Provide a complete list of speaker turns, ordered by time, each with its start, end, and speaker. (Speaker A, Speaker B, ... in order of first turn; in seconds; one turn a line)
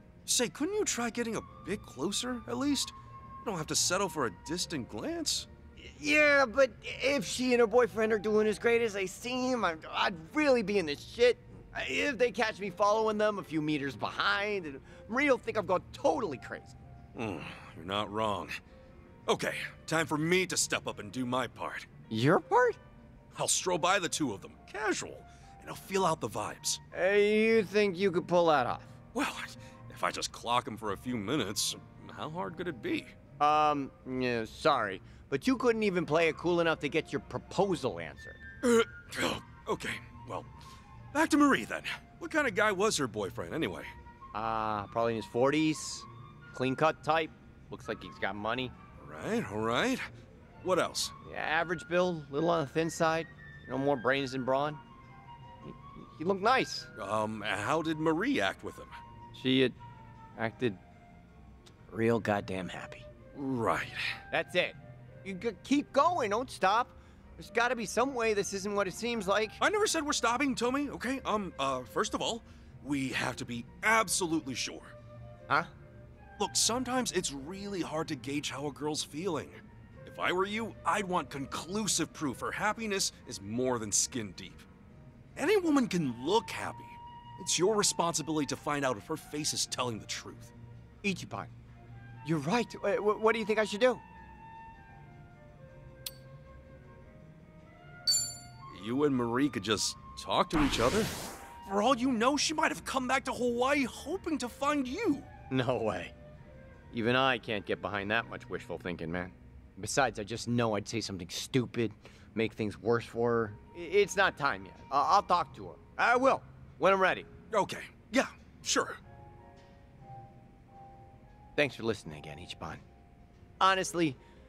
Speaker A: 0.3-5.5
Speaker B: 5.8-16.8
Speaker A: 17.1-18.6
Speaker A: 19.3-21.9
Speaker B: 22.1-22.8
Speaker A: 23.4-26.8
Speaker B: 26.9-28.9
Speaker A: 29.1-33.1
Speaker B: 33.4-38.4
Speaker A: 38.6-40.5
Speaker A: 41.1-43.9
Speaker B: 44.3-48.7
Speaker A: 49.0-50.0
Speaker A: 50.6-51.1
Speaker B: 51.2-54.8
Speaker B: 55.6-56.9
Speaker A: 57.0-59.0
Speaker B: 59.3-59.8
Speaker B: 60.4-60.8
Speaker B: 61.9-63.1
Speaker A: 63.4-64.1
Speaker B: 64.3-69.6
Speaker A: 69.6-74.9
Speaker A: 76.4-84.7
Speaker A: 85.4-90.5
Speaker B: 91.0-91.5
Speaker B: 92.2-94.0
Speaker A: 98.7-105.3
Speaker B: 105.5-106.1
Speaker B: 106.9-117.3
Speaker A: 117.5-119.0
Speaker B: 121.6-122.8
Speaker B: 123.6-124.2